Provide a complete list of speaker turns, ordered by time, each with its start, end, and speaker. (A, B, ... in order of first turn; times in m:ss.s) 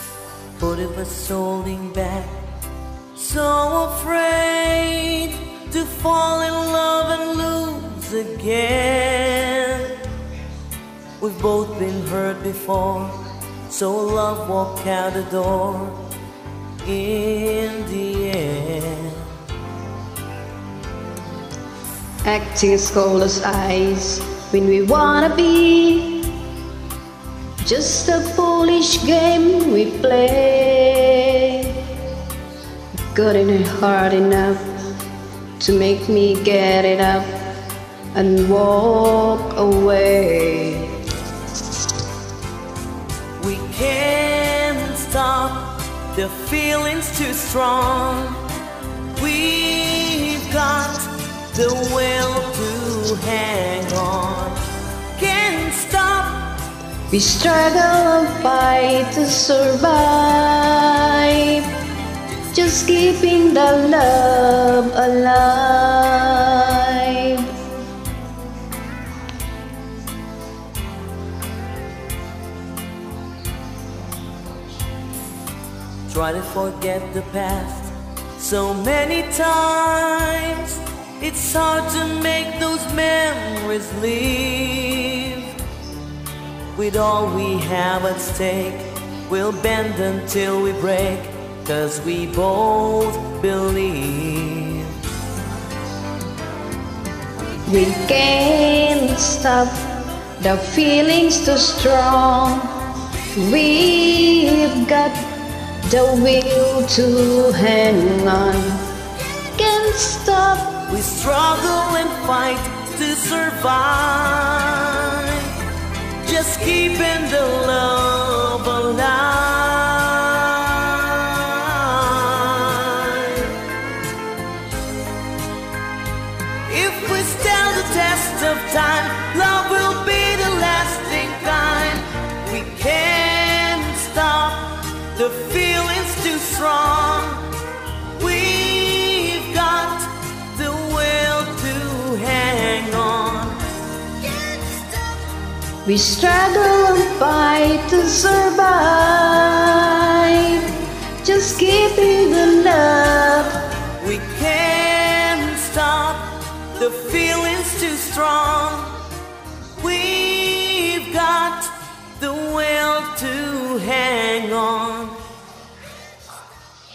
0:00.6-0:02.5 A
0:03.2-0:10.1 A
0:11.2-0:16.0 A
0:16.8-0:19.3 A
0:22.2-0:26.2 B
0:27.6-0:31.8 B
0:33.1-0:34.7 B
0:35.6-0:37.3 B
0:38.1-0:41.0 B
0:43.4-0:48.4 A
0:49.2-0:54.6 A
0:55.1-0:56.6 A
0:57.1-1:01.7 B
1:02.5-1:07.5 B
1:16.1-1:25.6 A
1:26.8-1:35.0 A
1:37.7-1:39.8 B
1:40.4-1:42.7 B
1:43.4-1:45.2 B
1:45.8-1:48.8 B
1:49.4-1:50.8 B
1:50.9-1:55.6 A
1:56.2-2:03.6 A
2:06.7-2:17.5 A
2:18.2-2:23.6 A
2:25.8-2:33.6 B
2:34.0-2:39.0 A
2:39.8-2:45.2 A